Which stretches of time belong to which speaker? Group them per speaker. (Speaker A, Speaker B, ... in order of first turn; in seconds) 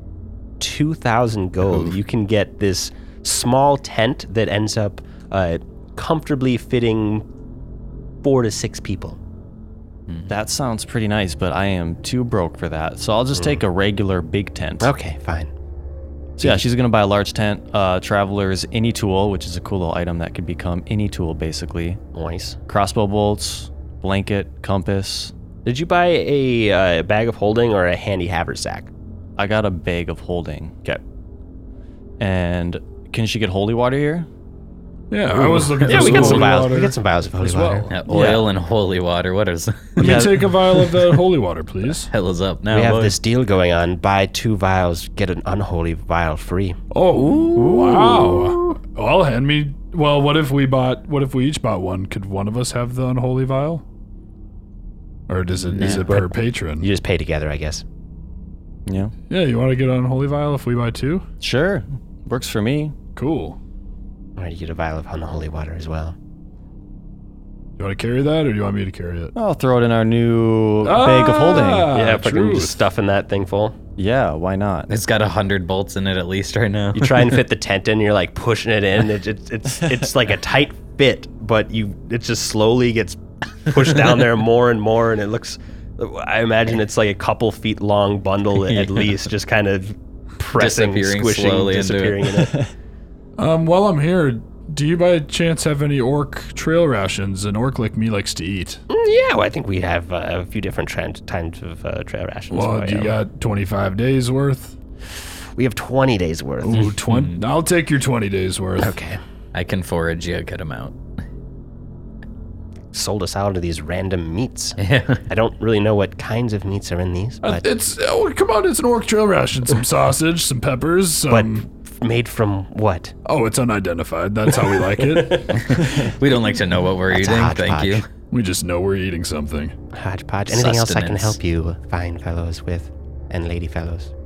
Speaker A: 0.6-7.2, 8.2-9.2, 14.8-15.5, 22.1-22.6, 25.6-28.9, 35.4-38.4, 42.7-46.8, 55.8-57.8, 64.4-66.2, 71.9-73.8, 77.0-92.6, 98.9-103.2, 105.6-106.9, 108.8-109.2, 112.9-117.7, 121.3-123.2, 125.0-125.8, 127.1-128.0, 129.9-134.1
Speaker B: 10.3-14.9, 16.4-22.0, 22.7-25.3, 29.4-30.8, 32.2-34.3, 36.0-36.4, 38.1-38.4, 40.0-40.5, 47.5-48.6, 58.9-59.1, 61.4-63.0, 69.3-71.9, 74.0-74.9, 92.5-92.7
Speaker C: 35.1-37.9, 40.0-42.1, 46.9-53.8, 55.3-56.9, 59.3-61.3, 63.2-63.6, 67.8-69.3, 70.8-72.8, 93.4-98.8, 102.5-104.8, 106.6-109.0, 117.4-121.7, 123.2-125.9, 128.3-129.8
Speaker D: 37.9-40.3, 42.1-43.2, 55.7-56.1, 74.9-77.4, 88.7-89.1, 90.5-92.3, 107.0-107.4, 109.5-111.0, 114.8-115.2, 125.5-128.1, 130.5-131.4